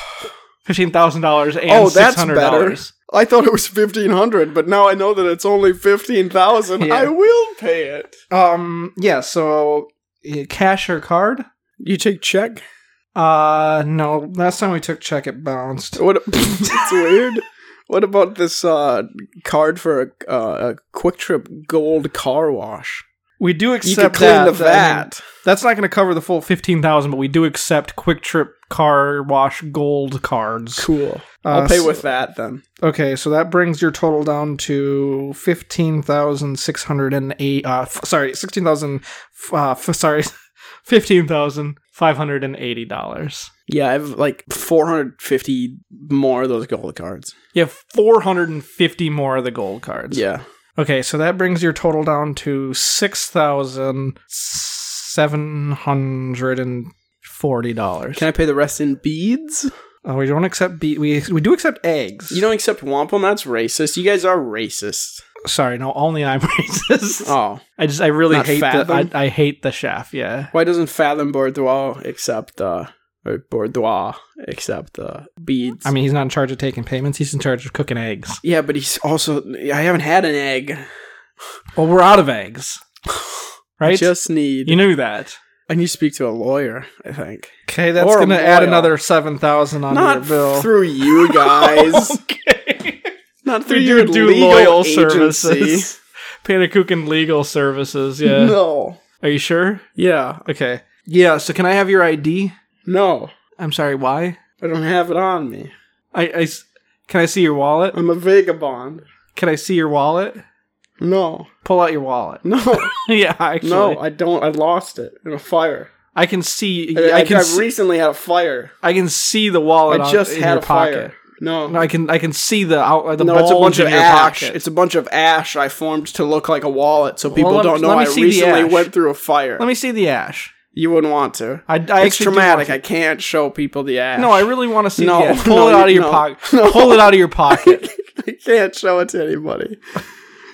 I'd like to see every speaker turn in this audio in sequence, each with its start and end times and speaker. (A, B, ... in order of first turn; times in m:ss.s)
0:00.6-0:02.9 A
0:01.7-0:08.2 B
0:06.8-0:07.1 A
0:08.3-0:11.4 A
0:11.8-0:12.6 B
0:13.1-0:16.0 A
0:16.0-0:23.0 B
0:23.4-0:30.9 A
0:23.8-0:25.2 B
0:30.8-0:32.6 B
0:31.4-0:32.0 A
0:32.8-0:40.3 A
0:40.8-0:43.5 A
0:43.7-0:47.3 B
0:47.5-0:50.2 A
0:50.1-0:50.4 B
0:50.8-0:58.2 A
0:58.2-0:59.7 B
1:00.0-1:02.4 A
1:02.3-1:05.2 B
1:05.4-1:10.5 A
1:07.2-1:07.6 B
1:08.3-1:09.1 B
1:10.5-1:15.9 B
1:15.8-1:18.4 A
1:18.4-1:20.8 B
1:21.8-1:22.8 A
1:23.8-1:24.1 A
1:23.8-1:24.8 B
1:24.6-1:25.4 A
1:25.7-1:28.9 B
1:27.7-1:33.1 A
1:29.9-1:32.2 B
1:33.4-1:35.9 B
1:33.6-1:38.6 A
1:38.2-1:39.0 B
1:39.2-1:39.8 A
1:40.0-1:40.4 B
1:40.4-1:42.5 A
1:42.8-1:43.3 B
1:43.6-1:44.4 A
1:44.6-1:45.7 B
1:46.1-1:48.0 A
1:47.9-1:49.0 B
1:49.3-1:50.4 A
1:51.0-1:51.5 B
1:51.6-1:54.0 A
1:52.4-1:53.0 B
1:53.6-1:55.9 B
1:56.1-1:57.7 A
1:56.9-1:58.7 B
1:58.8-2:01.1 A
1:59.9-2:01.8 B
2:01.7-2:04.6 A
2:03.2-2:09.6 B
2:07.3-2:08.9 A
2:09.6-2:10.5 A
2:10.7-2:19.8 B
2:11.7-2:12.8 A
2:14.2-2:17.9 A